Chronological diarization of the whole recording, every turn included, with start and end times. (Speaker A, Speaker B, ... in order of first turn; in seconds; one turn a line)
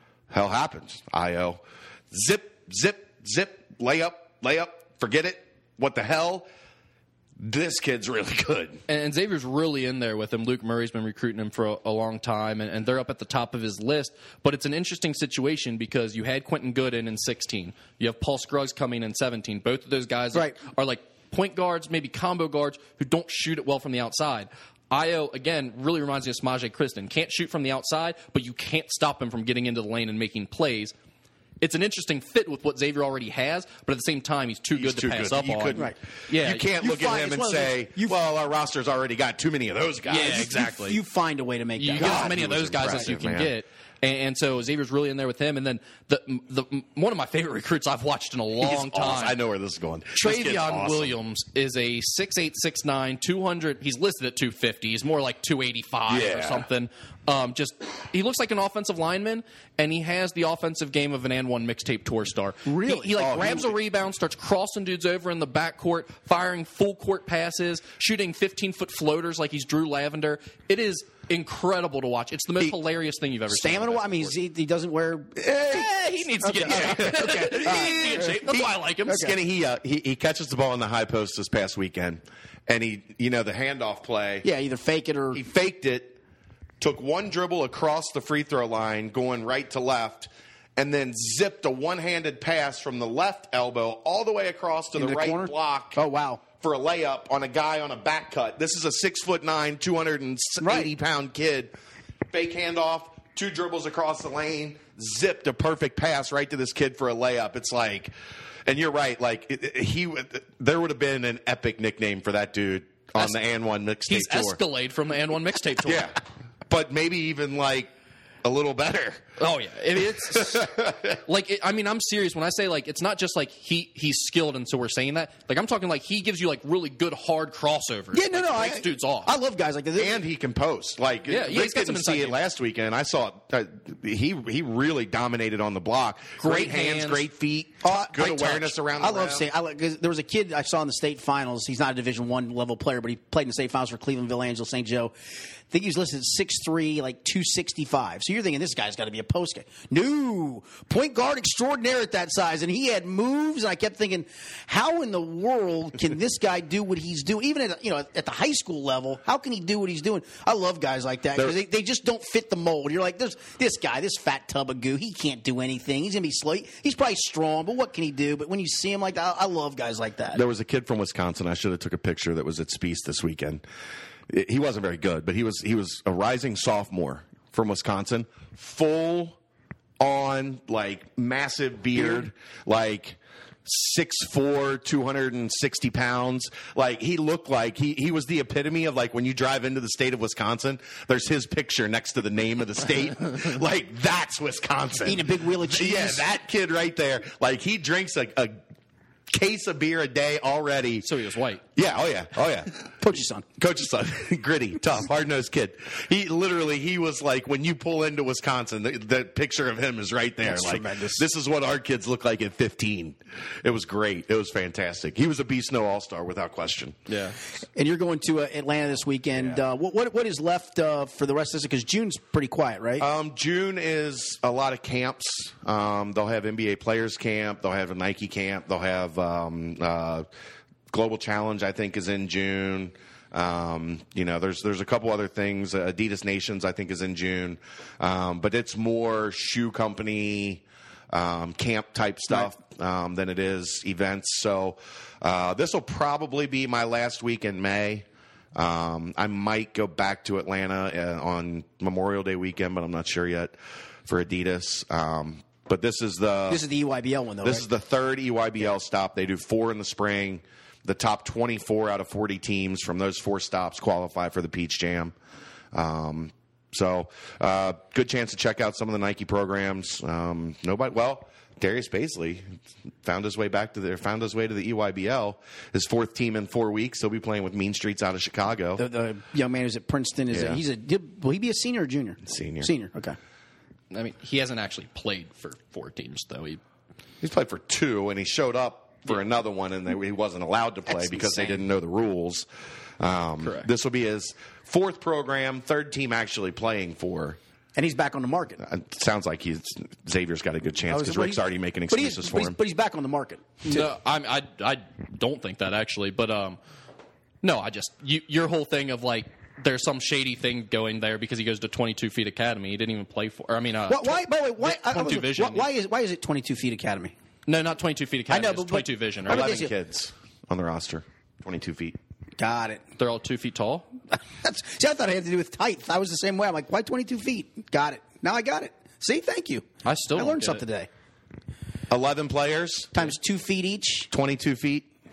Speaker A: 0.3-6.5
Speaker A: 7.4-8.8
Speaker B: 8.9-30.9
Speaker B: 31.6-36.7
Speaker A: 34.8-40.5
Speaker C: 36.8-38.1
Speaker B: 40.1-41.0
Speaker C: 40.1-42.3
Speaker B: 41.8-49.4
Speaker A: 42.0-43.5
Speaker A: 48.6-51.1
Speaker B: 50.2-74.4
Speaker A: 56.1-56.7
Speaker C: 62.7-63.2
Speaker A: 63.2-63.7
Speaker C: 73.5-78.4
Speaker B: 75.7-79.3
Speaker A: 78.2-84.5
Speaker C: 79.1-79.3
Speaker C: 84.4-85.4
Speaker A: 85.3-86.2
Speaker A: 86.8-96.0
Speaker C: 95.0-96.4
Speaker A: 96.6-101.7
Speaker C: 100.6-100.9
Speaker A: 102.3-108.1
Speaker A: 108.7-114.6
Speaker B: 114.1-116.1
Speaker A: 115.8-116.2
Speaker A: 116.7-117.9
Speaker A: 118.4-119.3
Speaker B: 119.4-129.3
Speaker A: 120.3-121.2
Speaker C: 128.1-130.2
Speaker A: 130.0-139.5
Speaker B: 131.3-132.4
Speaker B: 136.4-137.3
Speaker C: 137.8-145.1
Speaker C: 145.7-170.4
Speaker A: 170.3-173.6
Speaker A: 174.3-179.4
Speaker A: 180.0-198.6
Speaker C: 195.0-196.3
Speaker A: 199.3-201.1
Speaker B: 201.0-201.6
Speaker A: 201.8-202.8
Speaker C: 203.0-203.5
Speaker A: 203.6-217.0
Speaker C: 210.4-211.2
Speaker B: 217.1-217.4
Speaker C: 217.8-223.1
Speaker A: 223.0-230.3
Speaker A: 230.9-256.6
Speaker C: 256.5-257.7
Speaker A: 257.4-265.1
Speaker A: 265.7-272.5
Speaker A: 273.0-278.9
Speaker C: 278.8-283.2
Speaker A: 280.3-280.6
Speaker A: 282.3-282.7
Speaker B: 283.9-286.6
Speaker A: 287.2-292.5
Speaker C: 290.9-291.6
Speaker A: 293.0-297.4
Speaker B: 293.4-293.7
Speaker C: 297.8-298.6
Speaker A: 298.6-302.6
Speaker C: 300.9-303.8
Speaker B: 303.6-306.6
Speaker B: 307.4-315.7
Speaker C: 313.9-317.1
Speaker B: 317.5-319.6
Speaker C: 318.3-319.7
Speaker A: 319.3-322.0
Speaker C: 322.4-322.8
Speaker B: 323.0-323.9
Speaker C: 324.4-330.9
Speaker B: 329.8-330.7
Speaker A: 331.9-333.1
Speaker C: 332.9-334.1
Speaker A: 334.1-334.9